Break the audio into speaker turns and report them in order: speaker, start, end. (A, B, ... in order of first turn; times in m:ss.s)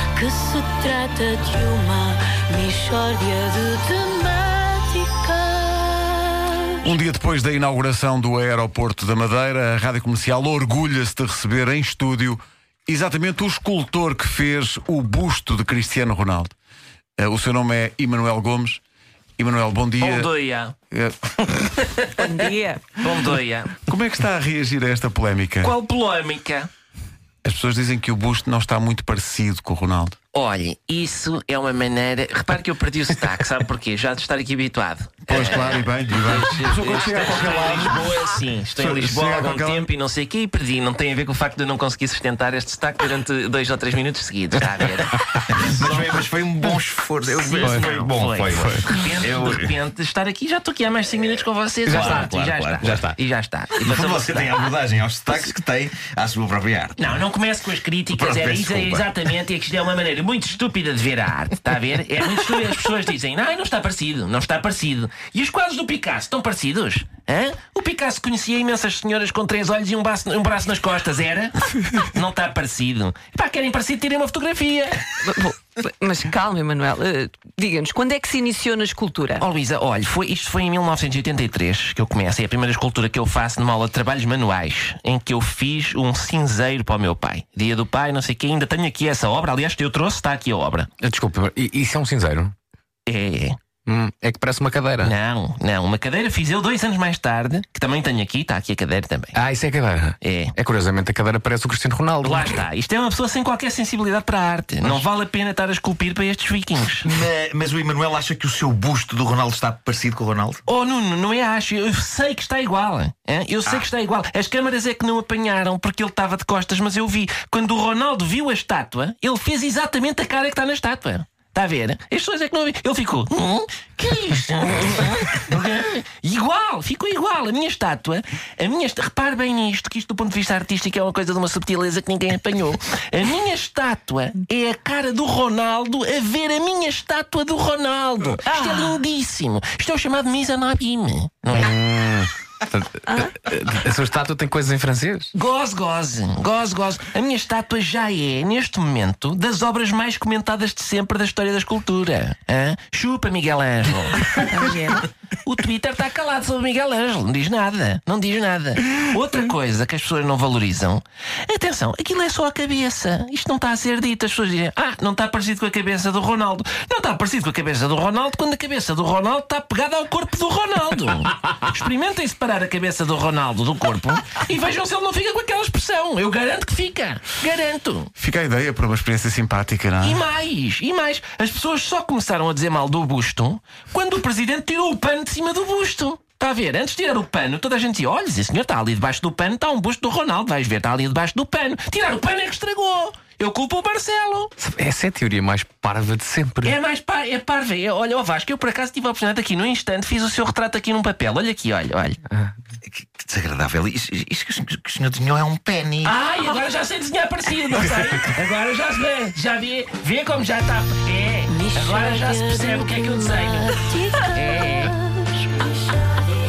0:00.2-0:06.8 A
0:06.8-0:16.5 B
0:17.2-0:18.8 B
0:19.4-0:20.3 B
0:20.0-0:20.7 C
0:20.9-0:21.7 B
0:21.8-0:22.4 C
0:22.2-0:22.8 D
0:23.0-0:23.8 C
0:23.9-0:25.7 B
0:25.6-0:26.7 C
0:27.4-0:30.2 B
0:30.3-0:46.2 C
0:35.3-0:38.2 B
0:38.8-0:39.9 B
0:45.5-0:49.7 E
0:47.3-0:54.6 C
0:51.9-0:53.0 E
0:51.9-0:52.2 F
0:52.9-0:53.1 F
0:53.8-0:57.2 E
0:57.0-1:15.2 C
0:58.1-0:59.4 E
1:15.3-1:19.4 D
1:19.4-1:30.9 C
1:31.0-1:32.5 F
1:33.1-1:33.6 C
1:33.9-1:35.1 F
1:35.0-1:39.4 C
1:39.3-1:42.6 F
1:40.2-1:40.6 C
1:42.2-1:47.1 C
1:47.0-1:50.6 E
1:50.7-2:21.8 C
2:21.5-2:25.3 F
2:25.3-2:34.9 C
2:34.6-2:35.0 D
2:35.4-2:58.1 C
2:58.2-3:00.2 B
3:00.0-3:14.5 C
3:14.6-3:16.8 F
3:16.6-3:22.2 C
3:22.8-3:26.2 E
3:26.0-3:33.8 C
3:31.5-3:36.2 A
3:34.3-3:34.9 C